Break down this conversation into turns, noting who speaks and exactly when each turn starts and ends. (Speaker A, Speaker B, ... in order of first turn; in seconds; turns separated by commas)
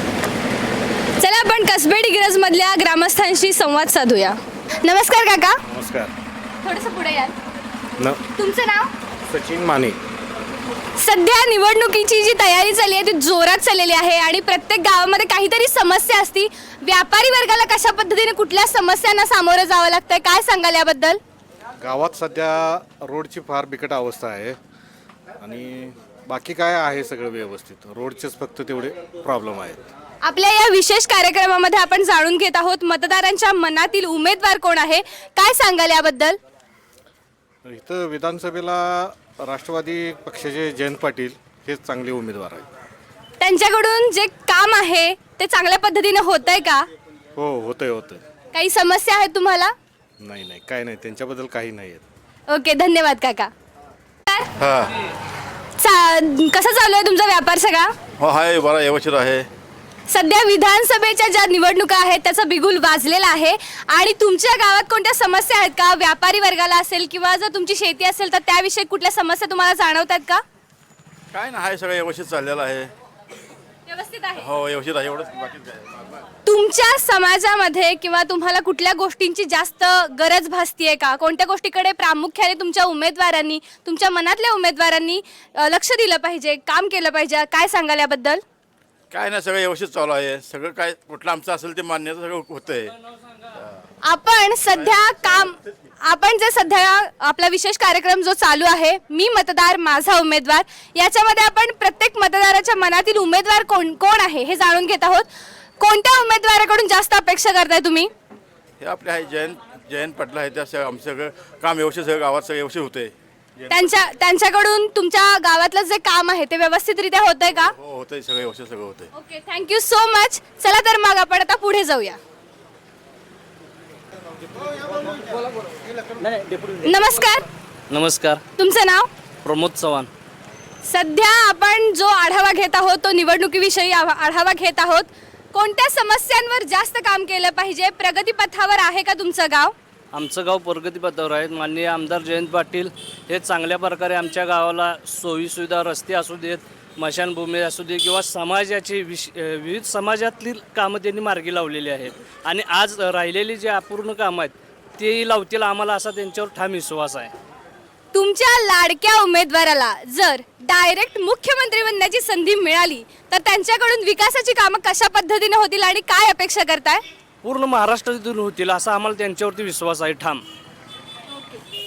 Speaker A: 1.2-5.6, Speaker A: 6.6-7.3, Speaker A: 8.3-8.9, Speaker A: 11.0-21.2, Speaker B: 21.8-22.6, Speaker B: 23.1-24.5, Speaker B: 25.4-29.8, Speaker A: 30.2-36.4, Speaker B: 37.7-38.8, Speaker B: 39.5-42.6, Speaker A: 43.4-46.9, Speaker B: 47.4-48.2, Speaker A: 48.5-49.7, Speaker B: 50.2-52.0, Speaker A: 52.5-53.5, Speaker C: 54.6-54.9, Speaker A: 55.8-57.9, Speaker C: 58.2-59.5, Speaker A: 60.1-70.4, Speaker C: 71.3-72.9, Speaker A: 73.9-74.5, Speaker C: 74.4-76.1, Speaker A: 76.5-88.4, Speaker C: 89.1-92.9, Speaker A: 94.0-105.3, Speaker A: 105.8-108.1, Speaker C: 108.8-113.1, Speaker A: 113.7-117.7, Speaker C: 117.8-119.1, Speaker A: 119.1-122.2, Speaker A: 126.8-127.4, Speaker D: 127.9-128.4, Speaker A: 128.6-129.1, Speaker D: 129.4-130.1, Speaker A: 130.8-139.7, Speaker D: 140.1-157.3, Speaker A: 158.1-167.0, Speaker D: 167.4-170.4, Speaker A: 171.3-171.6